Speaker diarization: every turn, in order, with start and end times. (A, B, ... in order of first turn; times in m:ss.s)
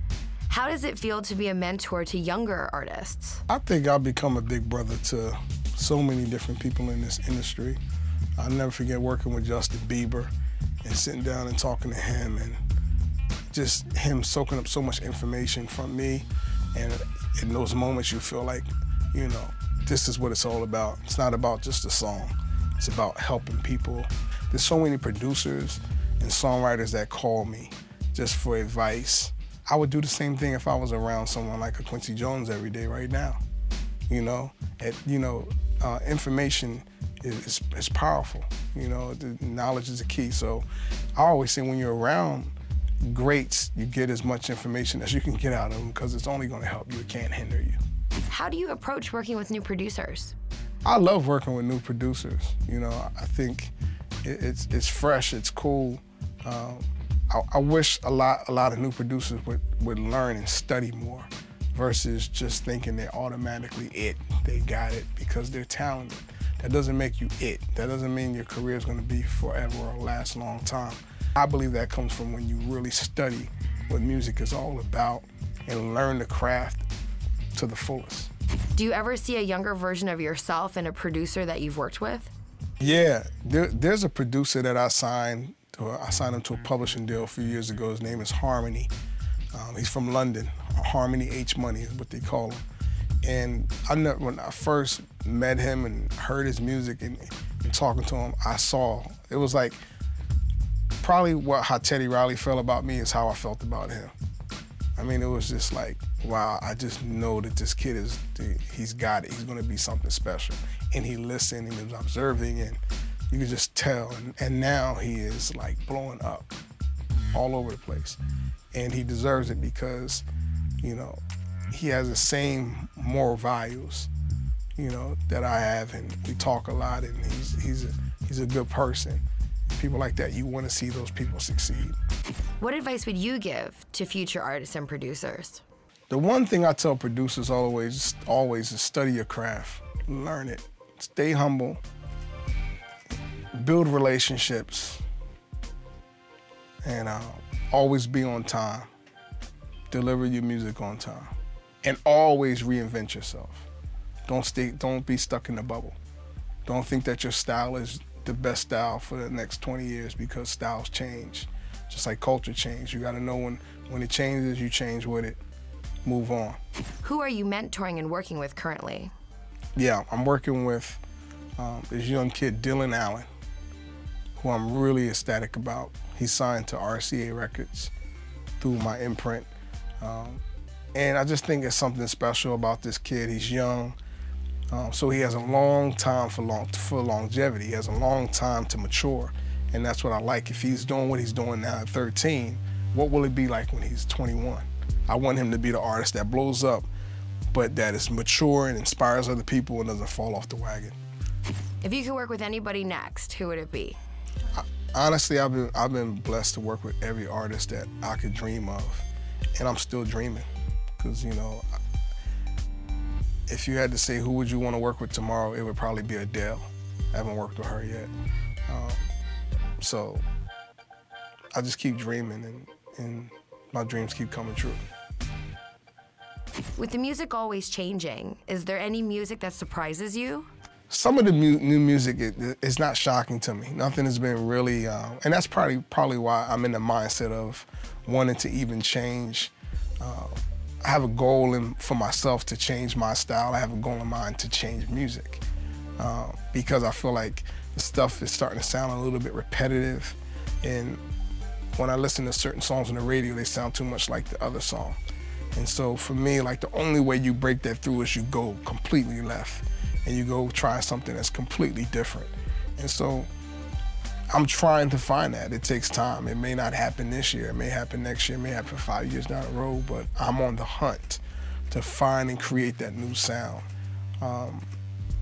0:00.5-0:03.4 A
0:03.5-0:07.8 B
0:08.4-0:10.3 B
0:10.8-0:12.6 B
0:13.5-0:33.4 B
0:34.1-0:47.8 B
0:48.3-0:50.3 A
0:50.8-1:16.9 B
1:17.5-1:18.3 B
1:18.7-1:22.3 A
1:22.8-1:28.9 B
1:29.5-1:32.6 B
1:33.2-1:39.8 B
1:41.0-1:44.1 B
1:45.0-1:56.5 B
1:57.3-1:58.2 B
1:58.7-2:00.2 B
2:00.8-2:01.2 B
2:01.7-2:04.1 B
2:04.8-2:12.0 B
2:12.6-2:15.6 A
2:16.1-2:21.8 B
2:23.5-2:25.0 B
2:26.8-2:28.9 B
2:29.9-2:33.7 B
2:34.3-2:36.0 B
2:36.6-2:45.4 B
2:46.0-2:46.6 B
2:47.0-2:49.1 A
2:49.8-2:51.0 B
2:51.6-2:53.3 B
2:54.4-2:57.9 B
2:58.6-2:59.5 B
3:00.0-3:00.4 B
3:00.9-3:04.0 B
3:04.7-3:16.9 B
3:17.5-3:21.0 B
3:21.8-3:24.0 A
3:24.5-3:29.0 B
3:29.6-3:30.5 B
3:31.0-3:31.6 B
3:33.5-3:38.1 B
3:38.7-3:39.1 B
3:39.8-3:40.2 B
3:41.5-3:44.8 B
3:46.8-3:50.5 A
3:50.9-4:05.4 B
4:06.0-4:11.0 B
4:11.7-4:15.0 B
4:15.5-4:23.3 B
4:24.3-4:33.7 B
4:34.2-4:34.6 B